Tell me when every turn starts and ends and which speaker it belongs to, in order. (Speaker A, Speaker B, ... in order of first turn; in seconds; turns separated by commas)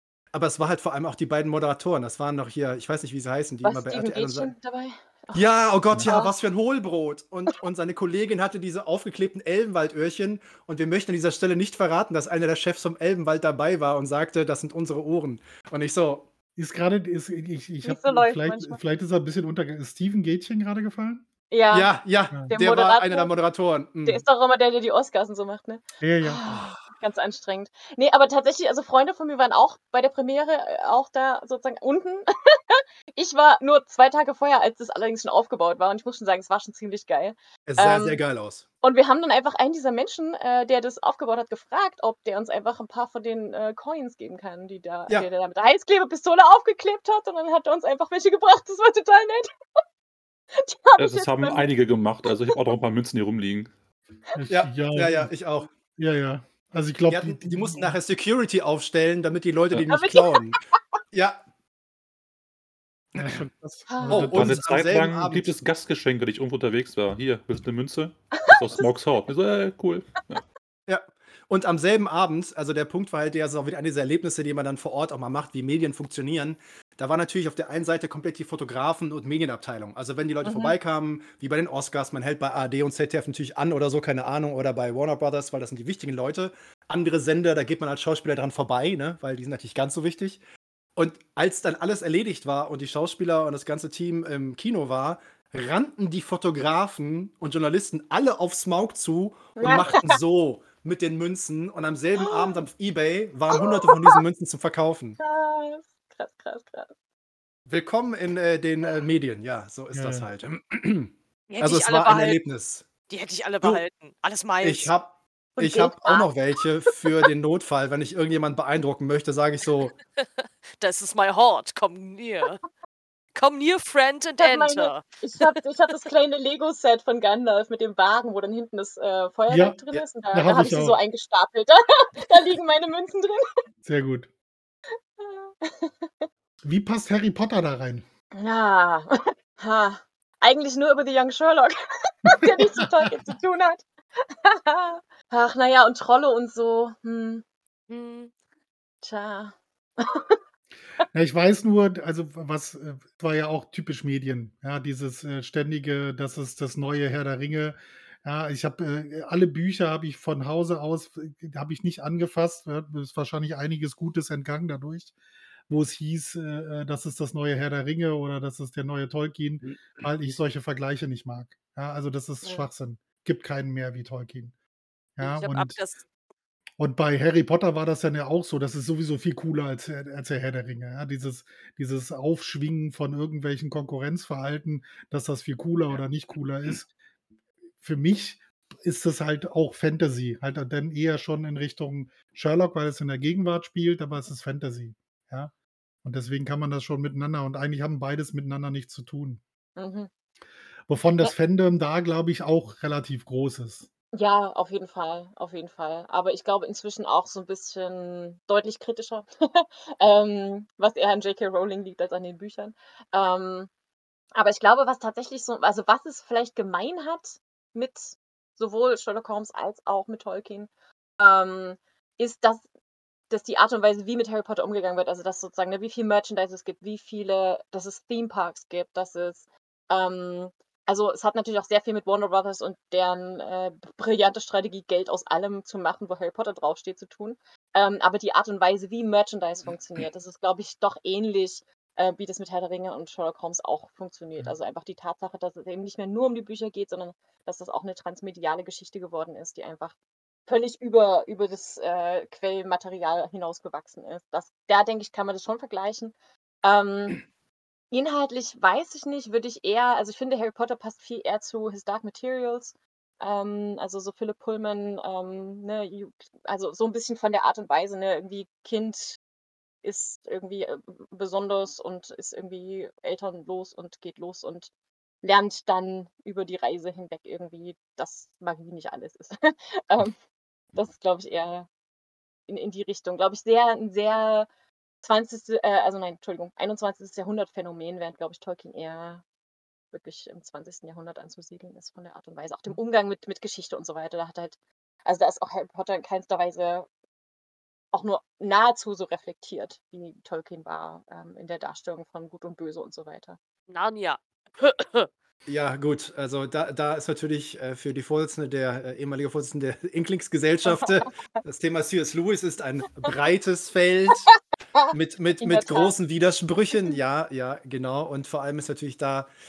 Speaker A: 0.3-4.5, Speaker B: 3.6-5.5, Speaker A: 5.3-16.3, Speaker B: 6.0-6.3, Speaker C: 16.6-21.2, Speaker B: 17.8-18.8, Speaker B: 21.5-21.9, Speaker A: 21.7-24.2, Speaker B: 22.5-23.3, Speaker B: 24.0-38.2, Speaker C: 26.0-26.5, Speaker A: 26.5-26.8, Speaker A: 37.7-38.6, Speaker B: 38.8-49.5, Speaker B: 50.6-51.7, Speaker D: 51.0-53.7, Speaker B: 52.2-52.5, Speaker C: 54.3-55.3, Speaker A: 54.5-55.7, Speaker C: 56.0-58.0, Speaker A: 57.1-60.6, Speaker B: 59.9-60.4, Speaker A: 61.1-61.4, Speaker A: 63.1-63.4, Speaker C: 63.1-64.6, Speaker B: 63.9-64.4, Speaker A: 64.0-65.5, Speaker D: 64.3-70.4, Speaker A: 70.9-90.4, Speaker B: 80.4-80.7, Speaker A: 91.0-105.2, Speaker B: 99.6-100.1, Speaker B: 102.2-102.6, Speaker B: 103.5-104.2, Speaker B: 105.2-106.9, Speaker A: 107.7-112.9, Speaker C: 109.9-110.3, Speaker E: 111.5-112.4, Speaker E: 113.1-114.9, Speaker A: 114.6-119.9, Speaker B: 115.6-116.3, Speaker E: 120.2-122.6, Speaker E: 123.3-125.5, Speaker B: 124.4-133.4, Speaker C: 129.5-131.0, Speaker C: 133.8-134.3, Speaker B: 135.2-136.2, Speaker C: 136.6-138.0, Speaker B: 138.3-147.4, Speaker C: 142.2-142.7, Speaker E: 147.9-148.3, Speaker B: 149.0-150.4, Speaker C: 151.1-165.1, Speaker C: 165.7-174.5, Speaker B: 172.4-172.7, Speaker C: 175.2-175.8, Speaker E: 175.2-176.0, Speaker C: 176.8-186.9, Speaker C: 187.8-195.5, Speaker C: 196.0-199.4, Speaker B: 199.8-200.1, Speaker C: 200.9-203.9, Speaker B: 204.1-213.7, Speaker B: 214.3-222.7, Speaker B: 223.3-249.9, Speaker B: 250.5-257.2, Speaker B: 257.9-269.2, Speaker B: 269.8-274.7, Speaker B: 275.2-280.1, Speaker B: 280.7-281.7, Speaker B: 282.5-284.5, Speaker B: 285.0-289.2, Speaker B: 289.9-296.9, Speaker B: 297.9-303.4, Speaker E: 303.7-305.1, Speaker A: 305.5-314.3, Speaker B: 314.7-315.9, Speaker A: 314.9-319.3